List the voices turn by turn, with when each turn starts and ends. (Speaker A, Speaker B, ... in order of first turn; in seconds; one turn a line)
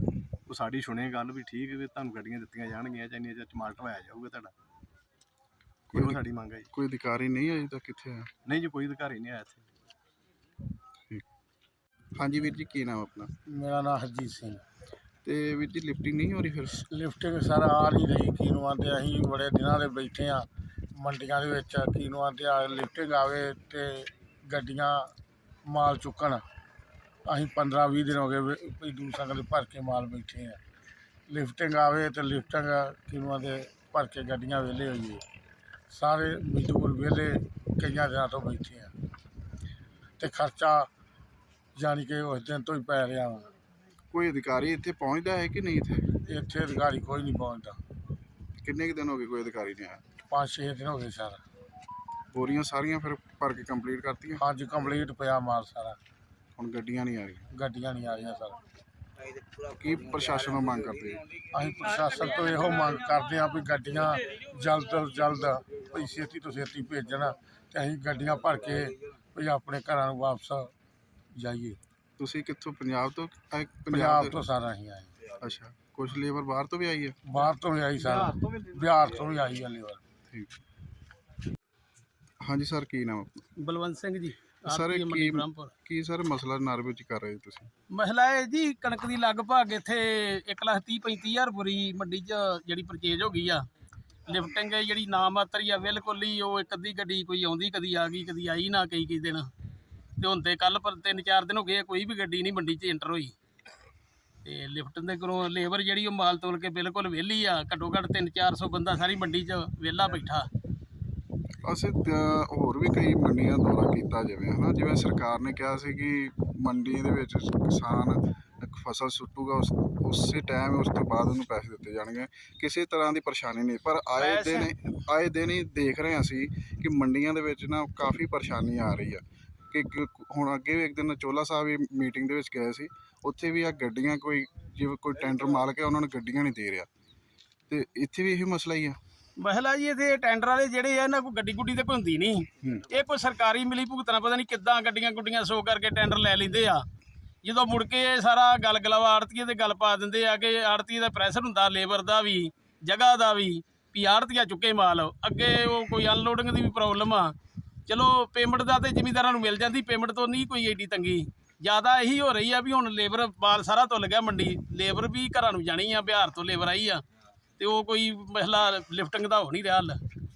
Speaker A: 0.5-4.5
Speaker B: 5.9-8.3
Speaker A: 5.9-6.7
Speaker A: 8.4-9.7
Speaker B: 12.2-13.3
Speaker C: 13.5-14.6
Speaker B: 15.2-16.8
Speaker C: 16.8-20.5
Speaker C: 21.0-25.1
Speaker C: 25.7-26.4
Speaker C: 27.3-30.6
Speaker C: 31.3-35.2
Speaker C: 35.9-38.9
Speaker C: 40.2-40.9
Speaker C: 41.8-43.5
Speaker B: 44.1-46.1
Speaker C: 46.3-47.8
Speaker B: 48.6-50.0
Speaker C: 50.3-51.4
Speaker B: 52.3-54.4
Speaker C: 54.4-56.0
Speaker B: 56.6-57.5
Speaker C: 57.5-58.6
Speaker B: 59.6-61.3
Speaker C: 61.5-70.7
Speaker C: 71.4-71.8
Speaker B: 72.2-74.4
Speaker C: 73.9-75.1
Speaker B: 75.3-77.2
Speaker C: 77.3-80.0
Speaker A: 77.5-79.2
Speaker B: 80.3-80.6
Speaker B: 82.4-83.5
Speaker D: 83.6-85.7
Speaker B: 84.7-87.7
Speaker D: 87.9-93.6
Speaker D: 94.3-99.5
Speaker D: 100.2-103.3
Speaker D: 104.4-110.5
Speaker B: 111.6-136.9
Speaker D: 124.2-124.7
Speaker B: 137.7-139.0
Speaker D: 139.4-146.8
Speaker D: 147.4-157.3
Speaker D: 157.9-167.0
Speaker D: 167.6-170.0